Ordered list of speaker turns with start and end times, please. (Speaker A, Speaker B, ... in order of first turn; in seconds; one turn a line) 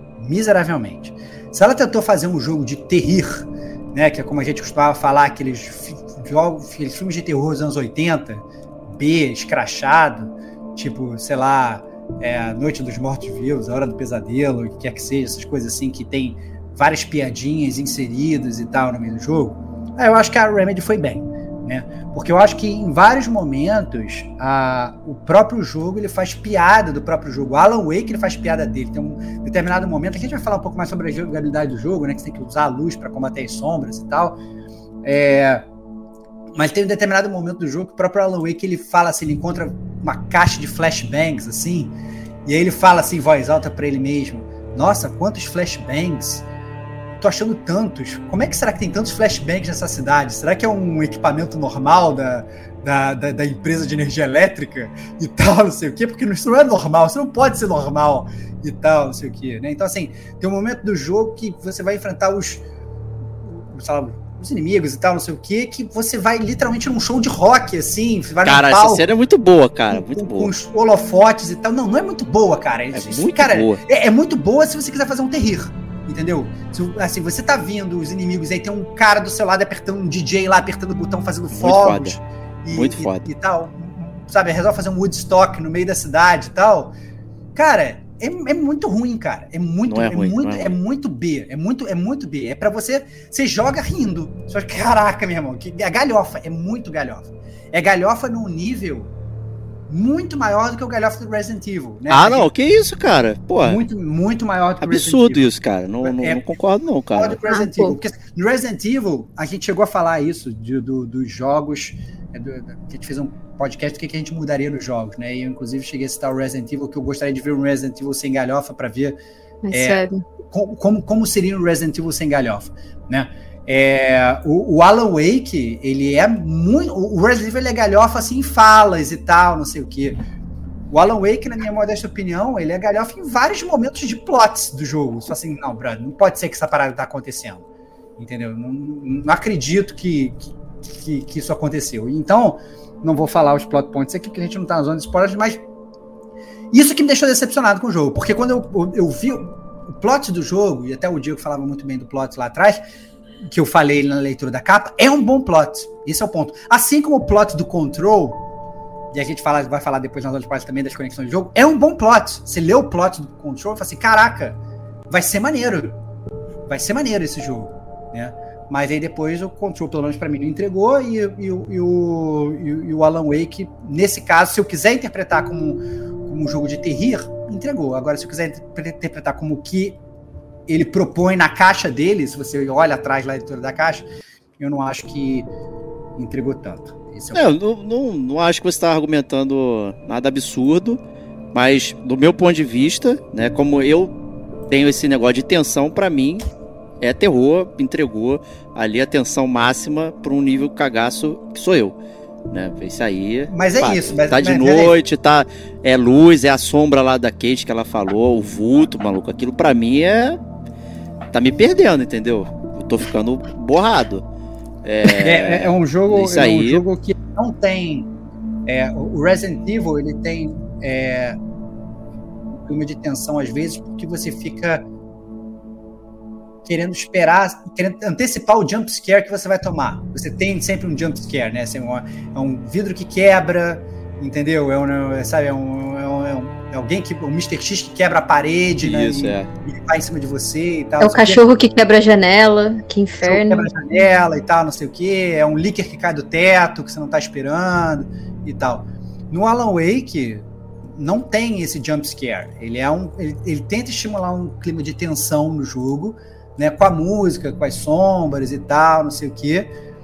Speaker A: 0.2-34.4
Speaker A: 35.0-35.7
Speaker A: 36.5-41.9
Speaker A: 42.5-46.5
Speaker A: 47.2-62.6
Speaker A: 63.4-69.0
Speaker B: 68.4-70.5
Speaker A: 69.9-86.9
Speaker B: 72.9-73.8
Speaker B: 81.5-82.2
Speaker B: 82.7-83.3
Speaker A: 87.5-99.1
Speaker B: 89.9-90.7
Speaker A: 99.9-102.5
Speaker B: 102.1-103.8
Speaker A: 103.6-106.5
Speaker B: 104.8-107.4
Speaker A: 107.2-119.2
Speaker C: 107.5-108.0
Speaker C: 119.6-120.2
Speaker A: 119.7-130.2
Speaker A: 130.9-137.6
Speaker A: 138.2-145.6
Speaker A: 146.7-152.8
Speaker A: 153.4-158.4
Speaker A: 159.1-164.6
Speaker A: 165.1-166.0
Speaker A: 166.7-180.0
Speaker A: 180.7-184.1
Speaker A: 184.6-185.5
Speaker A: 186.2-187.5
Speaker B: 187.3-191.0
Speaker B: 191.5-194.2
Speaker B: 194.7-196.4
Speaker B: 197.0-202.0
Speaker B: 202.5-210.4
Speaker A: 203.5-204.9
Speaker B: 211.3-214.2
Speaker B: 214.8-216.8
Speaker A: 215.1-218.1
Speaker A: 218.7-221.4
Speaker A: 222.7-224.8
Speaker A: 226.7-241.4
Speaker B: 238.8-239.5
Speaker C: 241.0-243.7
Speaker A: 243.2-259.7